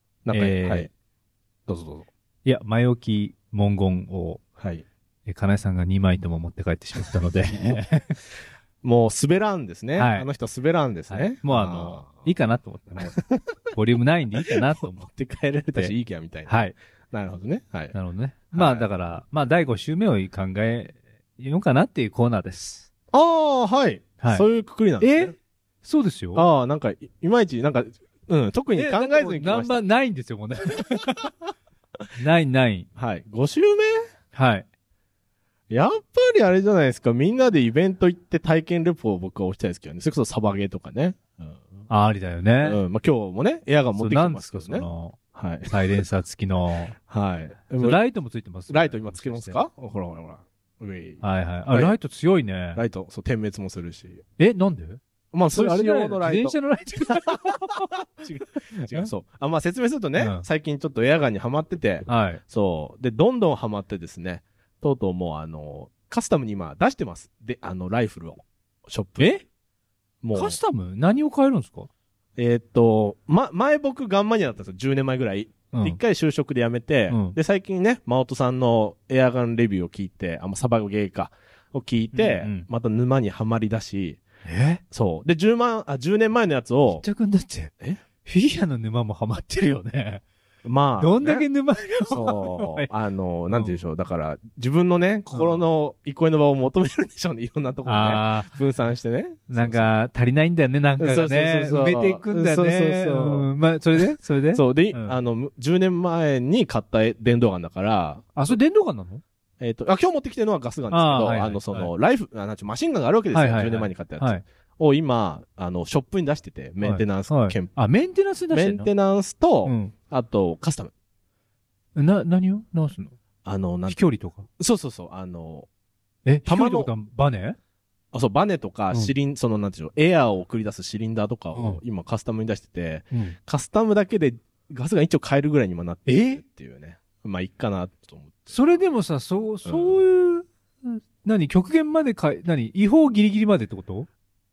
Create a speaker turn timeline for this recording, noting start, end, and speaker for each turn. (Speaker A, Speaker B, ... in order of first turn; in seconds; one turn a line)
Speaker A: 0.3-0.9
Speaker B: 0.3-0.9
Speaker A: 1.7-2.1
Speaker B: 2.5-4.4
Speaker A: 4.6-4.8
Speaker B: 5.3-8.2
Speaker A: 8.8-12.3
Speaker B: 10.0-10.3
Speaker B: 11.1-13.2
Speaker A: 13.0-13.7
Speaker B: 13.7-15.1
Speaker A: 14.5-17.9
Speaker B: 16.4-16.7
Speaker B: 17.9-22.9
Speaker A: 18.5-18.9
Speaker A: 23.1-25.3
Speaker B: 24.2-24.5
Speaker B: 25.0-26.4
Speaker A: 26.3-29.8
Speaker B: 28.7-31.3
Speaker B: 32.2-32.9
Speaker A: 33.0-34.0
Speaker B: 34.3-34.6
Speaker A: 35.7-41.9
Speaker B: 41.9-42.8
Speaker A: 42.6-45.8
Speaker B: 44.0-47.0
Speaker A: 47.1-48.0
Speaker B: 47.8-49.6
Speaker A: 48.7-52.0
Speaker B: 51.2-52.8
Speaker A: 52.7-54.2
Speaker B: 54.4-55.0
Speaker A: 55.3-56.6
Speaker B: 55.5-59.1
Speaker A: 57.1-69.4
Speaker B: 60.2-60.5
Speaker B: 62.1-62.4
Speaker B: 69.2-69.4
Speaker A: 70.2-70.6
Speaker B: 70.3-71.9
Speaker A: 72.4-84.2
Speaker B: 75.7-76.0
Speaker B: 77.1-77.4
Speaker B: 82.1-82.7
Speaker B: 84.4-84.8
Speaker A: 84.9-87.0
Speaker B: 86.9-90.2
Speaker A: 90.6-91.5
Speaker B: 91.0-92.9
Speaker A: 92.1-99.9
Speaker B: 93.5-93.8
Speaker B: 95.3-95.6
Speaker B: 97.8-98.5
Speaker B: 99.5-105.2
Speaker A: 101.0-108.5
Speaker B: 108.3-109.2
Speaker A: 109.6-117.8
Speaker B: 110.9-111.9
Speaker B: 113.3-114.4
Speaker B: 116.8-118.9
Speaker A: 118.5-120.9
Speaker B: 119.6-119.9
Speaker B: 122.0-123.1
Speaker A: 123.5-124.1
Speaker B: 123.9-124.5
Speaker A: 124.6-125.7
Speaker B: 126.3-127.6
Speaker A: 126.4-126.9
Speaker A: 128.1-138.6
Speaker B: 131.5-131.8
Speaker B: 133.1-133.4
Speaker B: 136.1-136.4
Speaker B: 138.5-144.1
Speaker A: 139.7-140.0